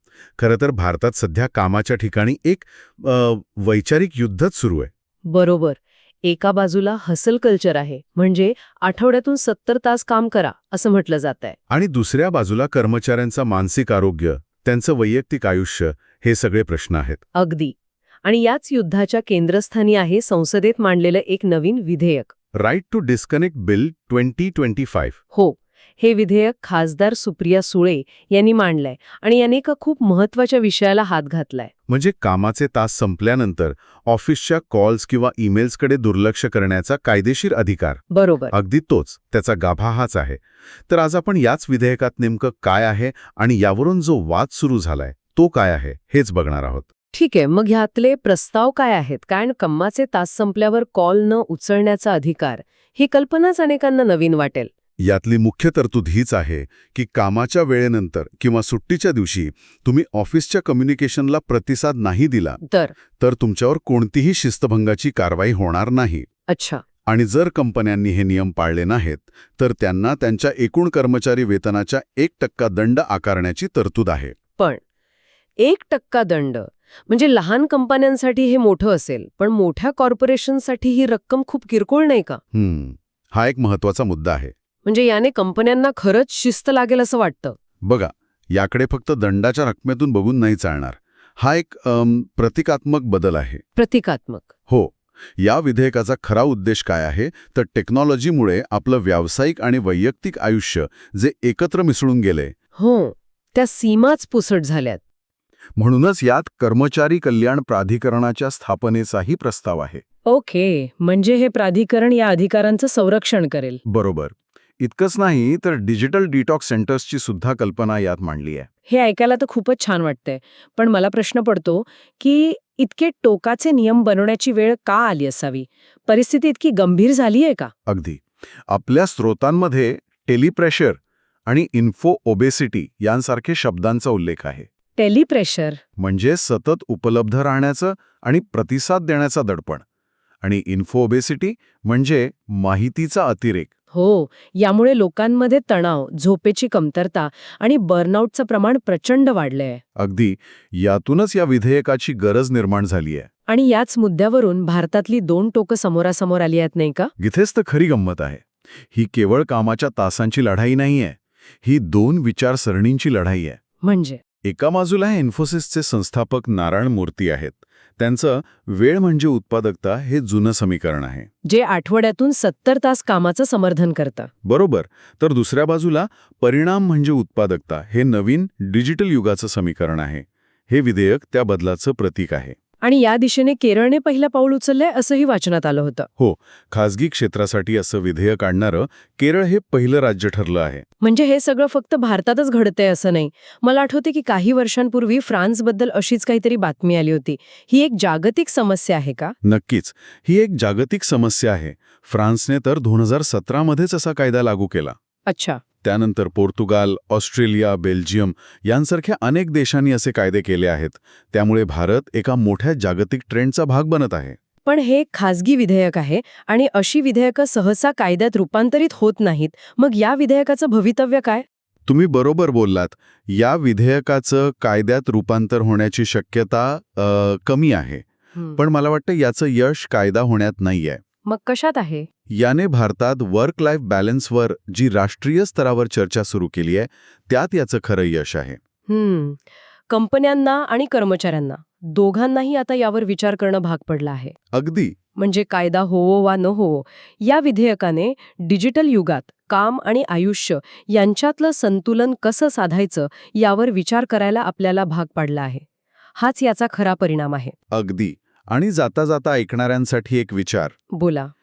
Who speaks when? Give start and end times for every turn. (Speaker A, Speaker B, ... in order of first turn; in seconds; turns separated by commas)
Speaker A: 0.4-4.9, Speaker B: 5.3-11.6, Speaker A: 11.7-17.2, Speaker B: 17.4-22.3, Speaker A: 22.6-25.2, Speaker B: 25.3-31.7, Speaker A: 31.9-46.9, Speaker B: 38.1-38.5, Speaker B: 47.1-54.7, Speaker A: 55.0-62.6, Speaker B: 62.6-62.9, Speaker A: 63.2-66.3, Speaker B: 66.5-66.8, Speaker A: 67.1-74.4, Speaker B: 75.6-82.4, Speaker A: 82.5-84.5, Speaker B: 84.8-87.6, Speaker A: 87.8-93.6, Speaker B: 93.8-94.5, Speaker A: 94.7-102.5, Speaker B: 102.8-105.0, Speaker A: 105.8-110.0, Speaker B: 110.3-113.8, Speaker A: 113.8-118.7, Speaker B: 118.9-127.7, Speaker A: 127.9-134.7, Speaker B: 135.0-135.8, Speaker A: 136.0-139.8, Speaker A: 140.4-143.7, Speaker B: 143.9-149.8, Speaker A: 150.0-153.3, Speaker B: 153.5-157.1, Speaker A: 157.2-163.6, Speaker B: 163.8-164.2, Speaker A: 164.4-171.3, Speaker B: 171.4-174.3, Speaker A: 174.4-182.6, Speaker B: 182.8-186.1, Speaker A: 186.2-190.8, Speaker B: 191.0-199.3, Speaker A: 199.4-204.9, Speaker B: 205.3-205.6, Speaker A: 205.8-214.4, Speaker B: 214.7-221.4, Speaker A: 221.9-228.1, Speaker A: 228.6-231.0, Speaker B: 231.3-232.1, Speaker A: 232.3-238.6, Speaker B: 238.9-244.3, Speaker A: 244.5-245.0, Speaker B: 245.2-255.6, Speaker B: 256.2-257.5, Speaker A: 257.7-260.8, Speaker B: 260.9-261.3